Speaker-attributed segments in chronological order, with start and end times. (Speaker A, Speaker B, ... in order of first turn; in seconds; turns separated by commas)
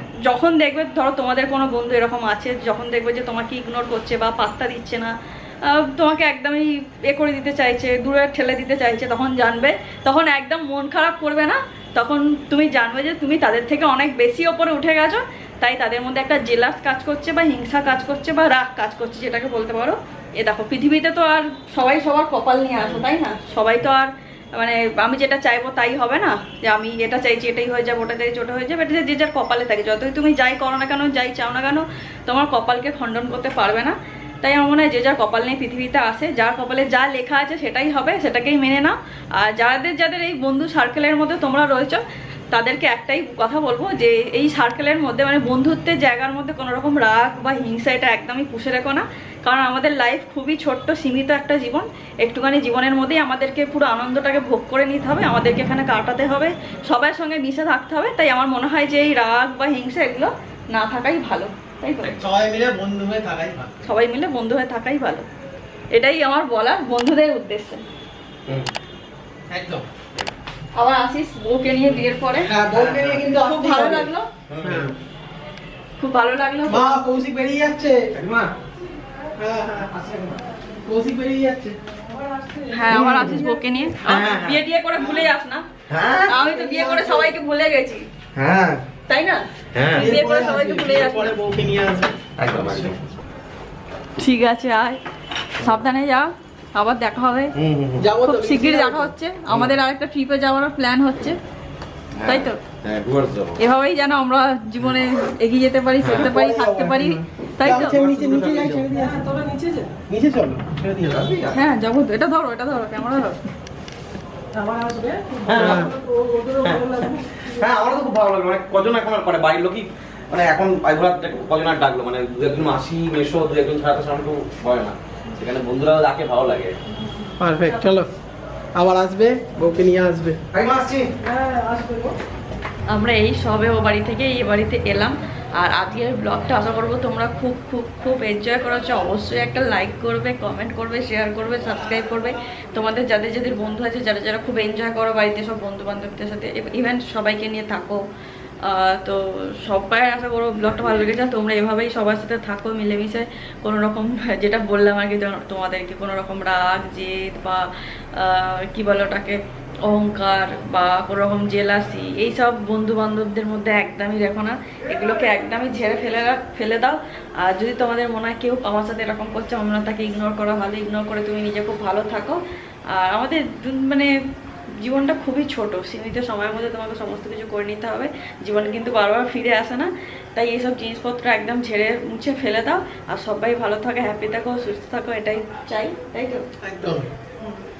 Speaker A: 0.2-5.1, Speaker A: 5.6-62.1, Speaker B: 62.2-63.9, Speaker A: 63.8-65.2, Speaker A: 65.9-67.8, Speaker B: 69.5-69.9, Speaker A: 70.7-72.5, Speaker B: 72.4-74.1, Speaker C: 72.7-73.2, Speaker A: 73.3-74.3, Speaker C: 74.5-74.9, Speaker B: 74.6-74.9, Speaker A: 76.0-77.0, Speaker B: 76.7-78.5, Speaker B: 79.4-81.8, Speaker B: 82.4-83.5, Speaker A: 82.7-85.7, Speaker C: 82.9-83.3, Speaker C: 84.0-84.6, Speaker C: 85.9-86.3, Speaker A: 86.3-88.1, Speaker B: 86.4-87.3, Speaker C: 88.3-88.8, Speaker A: 89.1-91.3, Speaker C: 89.7-90.1, Speaker B: 89.9-93.0, Speaker C: 92.4-93.0, Speaker A: 94.2-95.0, Speaker A: 95.6-97.5, Speaker C: 97.6-98.1, Speaker B: 98.0-99.1, Speaker A: 98.2-101.4, Speaker C: 99.5-99.7, Speaker C: 102.2-103.6, Speaker A: 102.2-102.6, Speaker A: 103.6-107.9, Speaker B: 106.0-111.3, Speaker C: 107.6-108.9, Speaker C: 111.0-111.6, Speaker A: 111.5-113.4, Speaker B: 114.5-117.4, Speaker C: 115.5-126.8, Speaker B: 127.4-128.1, Speaker B: 128.7-130.4, Speaker C: 130.5-131.1, Speaker B: 131.2-132.1, Speaker A: 132.9-148.0, Speaker A: 148.6-172.4, Speaker A: 172.9-174.1, Speaker A: 174.8-186.4, Speaker B: 186.6-187.1